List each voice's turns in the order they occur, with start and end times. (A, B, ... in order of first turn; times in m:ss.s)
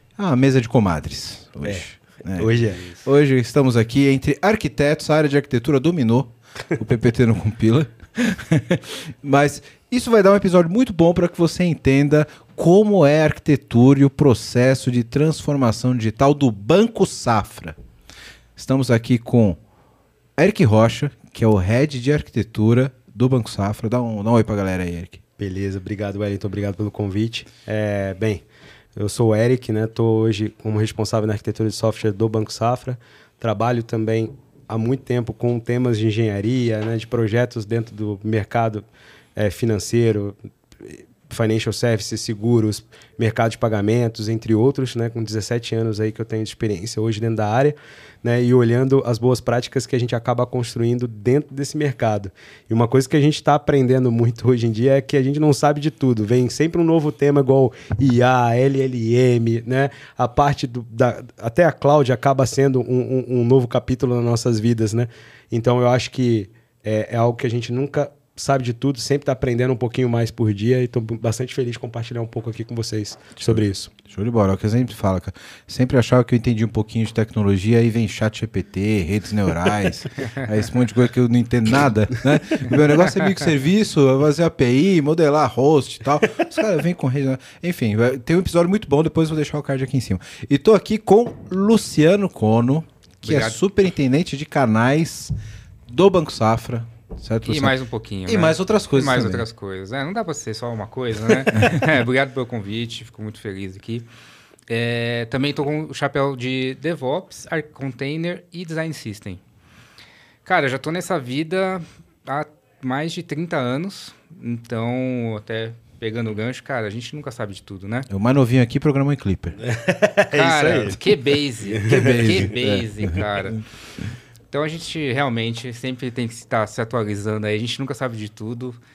0:00.2-0:17.8 A
0:01.6-0:02.9 B
0:18.6-0:19.6 A
0:20.4-0:25.2 A
0:25.4-0:28.4 B
0:29.0-0:38.8 B
0:39.4-1:13.9 B
1:13.4-1:35.3 A
1:33.2-1:33.6 C
1:35.9-1:37.7 A
1:37.4-1:44.0 C
1:38.2-1:39.5 A
1:44.7-1:49.4 C
1:50.5-1:58.1 C
1:58.1-1:59.6 A
1:59.7-2:01.0 B
2:00.3-2:03.6 C
2:01.7-2:02.2 B
2:01.9-2:03.6 A
2:04.5-2:08.8 C